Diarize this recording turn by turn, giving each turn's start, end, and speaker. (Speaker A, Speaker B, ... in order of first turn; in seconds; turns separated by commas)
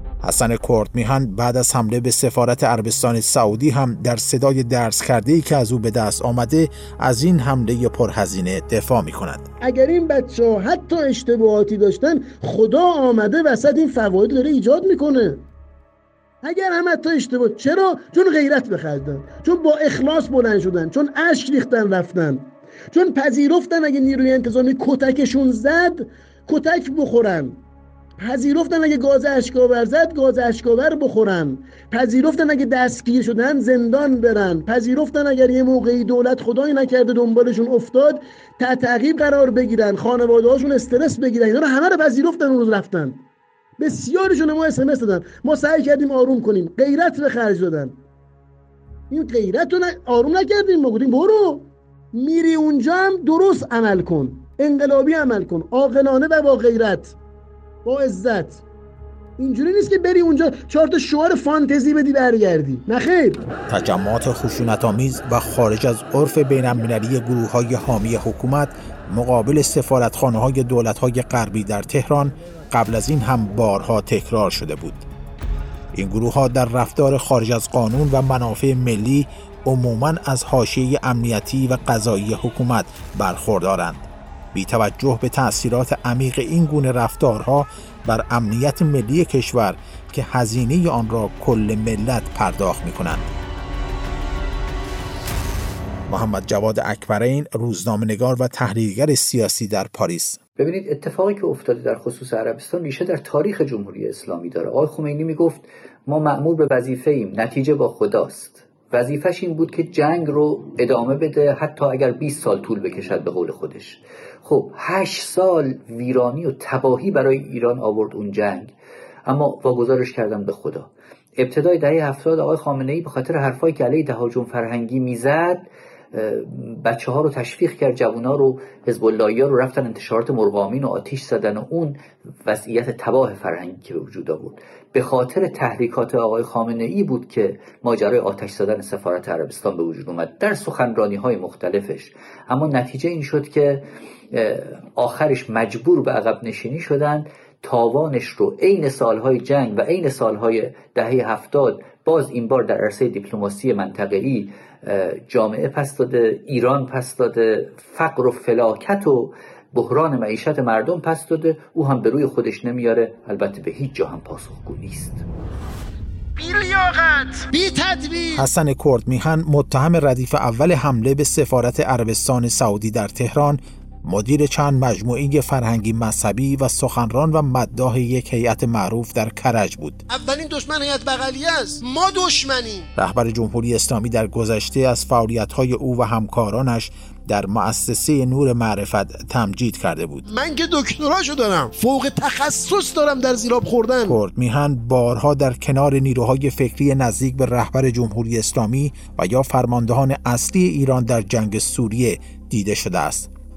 Speaker A: 0.2-9.5, Speaker B: 9.6-15.4, Speaker B: 16.4-27.6, Speaker B: 28.2-43.2, Speaker B: 43.8-48.0, Speaker B: 49.1-57.1, Speaker B: 57.8-58.6, Speaker B: 59.4-63.4, Speaker A: 63.7-75.0, Speaker A: 75.9-93.3, Speaker A: 96.1-100.4, Speaker C: 100.6-118.7, Speaker C: 119.3-165.2, Speaker B: 166.4-168.4, Speaker A: 168.3-180.0, Speaker B: 180.1-182.8, Speaker A: 182.9-190.2, Speaker B: 190.2-194.2, Speaker A: 194.1-203.3